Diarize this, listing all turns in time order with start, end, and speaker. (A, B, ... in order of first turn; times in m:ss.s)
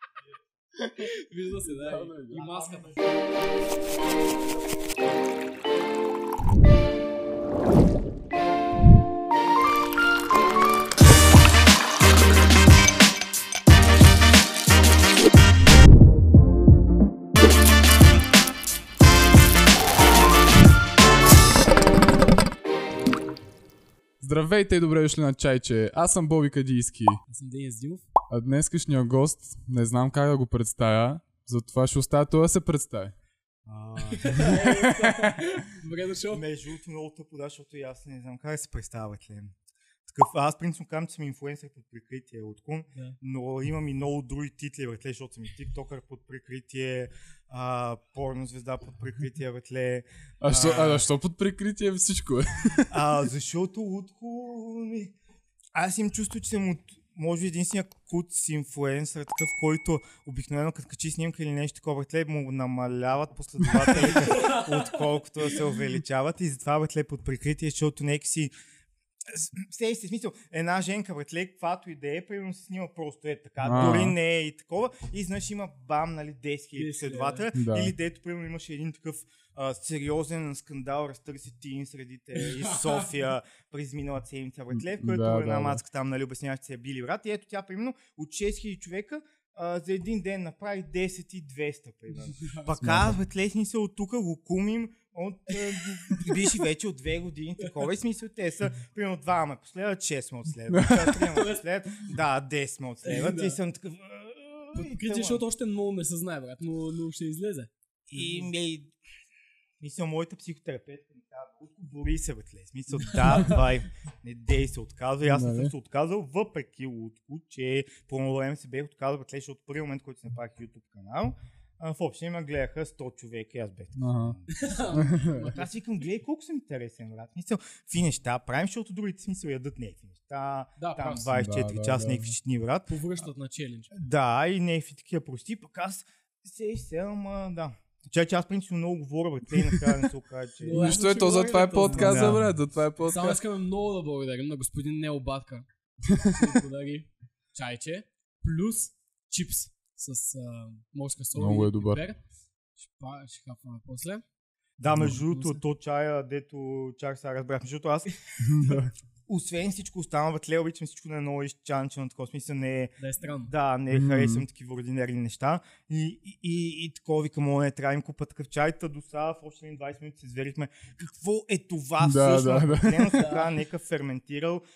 0:01.0-0:03.1 A
0:01.7-0:02.5 B
0:02.4-0:02.9 C
0:24.2-0:27.2 B
0:27.3-0:28.1 A
0:28.3-0:33.1 B
0:33.7-0:34.9 C
0:34.1-0:36.4 A
0:34.6-0:35.4 B
0:36.3-0:39.6 C
0:40.1-0:51.1 C
0:50.4-0:53.0 B
0:52.9-0:55.1 C
0:55.8-1:08.5 C
1:04.1-1:05.0 A
1:09.3-1:45.4 C
1:13.6-1:14.2 B
1:16.8-1:17.4 A
1:17.5-1:17.9 B
1:22.5-1:23.0 A
1:24.7-1:25.8 B
1:32.4-1:33.0 A
1:32.8-1:33.2 B
1:35.8-1:36.6 A
1:40.7-1:41.2 B
1:41.1-1:41.6 A
1:43.0-1:43.6 A
1:44.8-1:48.5 A
1:48.1-1:48.9 C
1:49.8-2:04.5 C
1:53.2-1:53.4 A
1:55.3-1:55.7 B
2:04.0-2:04.4 B
2:04.5-2:05.7 A
2:04.9-2:05.5 B
2:05.4-2:13.2 C
2:10.8-2:11.3 A
2:11.3-2:12.3 B
2:12.9-2:14.0 A
2:13.9-2:21.1 C
2:20.6-2:22.5 A
2:20.7-2:23.4 B
2:21.9-2:22.5 C
2:23.1-2:25.7 A
2:26.1-2:26.6 B
2:26.3-2:32.2 A
2:31.4-2:32.0 B
2:32.8-2:34.2 A
2:34.8-2:43.0 C
2:34.9-2:35.2 B
2:35.1-2:35.6 A
2:38.4-2:38.9 B
2:43.0-2:43.5 A
2:43.5-2:54.6 C
2:43.9-2:44.4 B
2:52.0-2:53.3 B
2:53.1-2:53.5 A